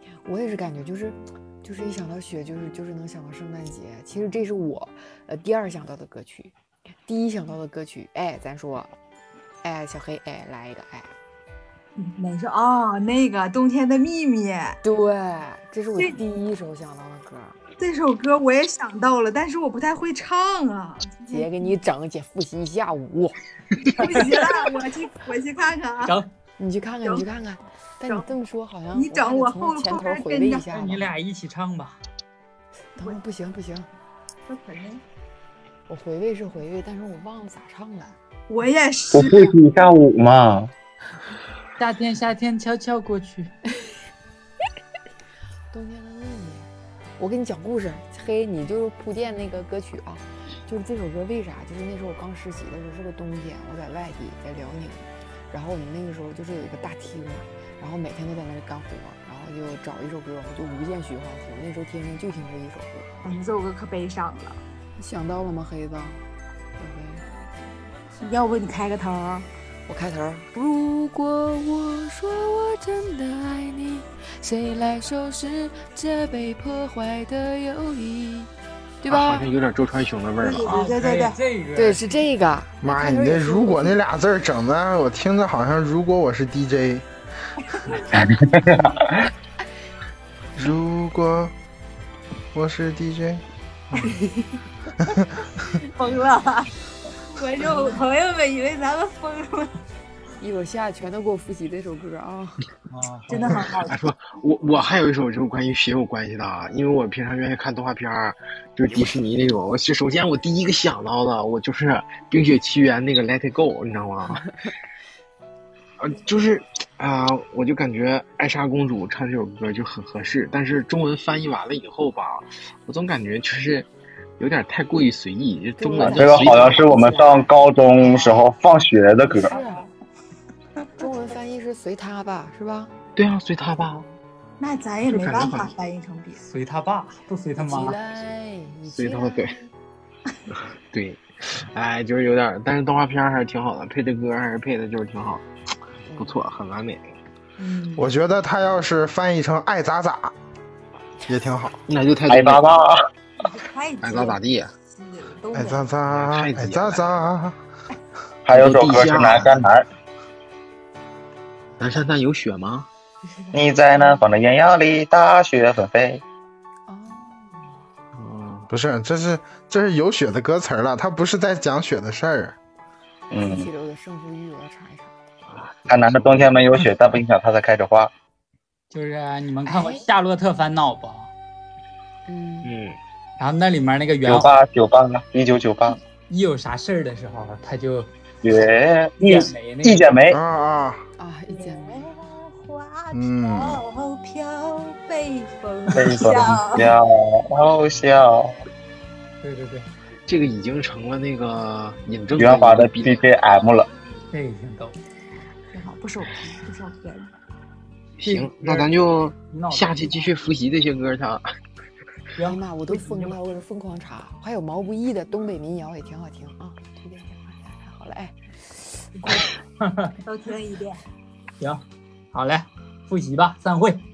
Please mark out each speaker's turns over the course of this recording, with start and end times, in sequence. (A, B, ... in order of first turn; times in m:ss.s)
0:00.2-0:06.5 A
0:07.0-0:08.9 A
0:09.6-0:11.1 A
0:12.0-0:14.8 B
0:14.8-0:17.6 A
0:17.8-0:21.8 B
0:21.3-0:23.4 A
0:23.9-0:26.2 B
0:26.6-0:31.1 A
0:28.9-0:30.7 B
0:30.7-0:32.0 C
0:32.9-0:33.9 A
0:34.5-0:35.0 B
0:35.9-0:38.2 A
0:38.5-0:39.5 B
0:39.1-0:40.7 D
0:41.8-0:43.5 C
0:45.7-1:03.1 A
1:03.2-1:04.6 B
1:05.0-1:06.2 A
1:06.8-1:07.2 A
1:08.2-1:09.5 B
1:09.9-1:18.5 A
1:19.0-1:19.5 A
1:19.1-1:20.9 E
1:20.4-1:21.4 B
1:20.6-1:22.0 C
1:21.7-1:24.0 A
1:22.8-1:27.1 F
1:28.1-1:29.1 D
1:30.6-1:31.5 F
1:32.5-1:33.4 F
1:33.9-1:34.2 C
1:35.7-1:36.7 B
1:37.3-1:39.7 B
1:40.4-1:42.6 A
1:42.9-1:43.6 C
1:43.3-1:44.0 B
1:43.9-1:54.4 E
1:56.0-2:03.9 E
2:04.4-2:07.1 E
2:05.8-2:08.5 A
2:06.0-2:09.6 D
2:09.2-2:09.8 A
2:11.0-2:12.9 A
2:13.2-2:14.1 E
2:14.6-2:16.4 B
2:15.0-2:15.7 E
2:16.4-2:18.0 C
2:17.6-2:19.6 A
2:18.9-2:19.6 E
2:20.9-2:25.4 E
2:26.1-2:26.4 A
2:26.2-2:27.0 E
2:27.6-2:28.1 B
2:28.0-2:30.3 F
2:31.3-2:31.8 F
2:31.9-2:32.7 E
2:32.3-2:33.0 D
2:33.4-2:35.9 B
2:34.0-2:34.7 E
2:35.5-2:37.6 F
2:36.1-2:37.1 E
2:38.4-2:39.9 D
2:38.5-2:39.7 E
2:41.8-2:42.9 E
2:43.2-2:44.2 B
2:43.5-2:46.2 D
2:46.9-2:47.8 A
2:48.1-2:48.7 E
2:48.7-2:52.6 F
2:53.3-2:53.7 D
2:53.4-2:55.1 A
2:55.5-2:56.9 E
2:55.9-2:58.1 D
2:58.9-3:01.3 C
2:59.6-3:00.0 A
3:02.3-3:02.7 A
3:02.6-3:03.0 E
3:03.4-3:04.6 C
3:04.2-3:06.0 D
3:06.3-3:08.1 C
3:08.4-3:10.4 D
3:09.2-3:10.1 C
3:10.3-3:11.0 F
3:11.2-3:12.1 A
3:11.5-3:16.9 B
3:13.1-3:13.8 F
3:15.9-3:18.6 D
3:16.0-3:16.2 C
3:19.4-3:19.9 C
3:20.3-3:23.3 E
3:22.4-3:23.9 D
3:24.3-3:25.0 C
3:25.7-3:27.3 B
3:28.2-3:31.4 E
3:28.2-3:28.9 C
3:29.5-3:30.3 C
3:32.4-3:33.3 C
3:32.4-3:39.2 A
3:39.3-3:40.1 C
3:40.2-3:41.0 B
3:42.3-3:44.0 C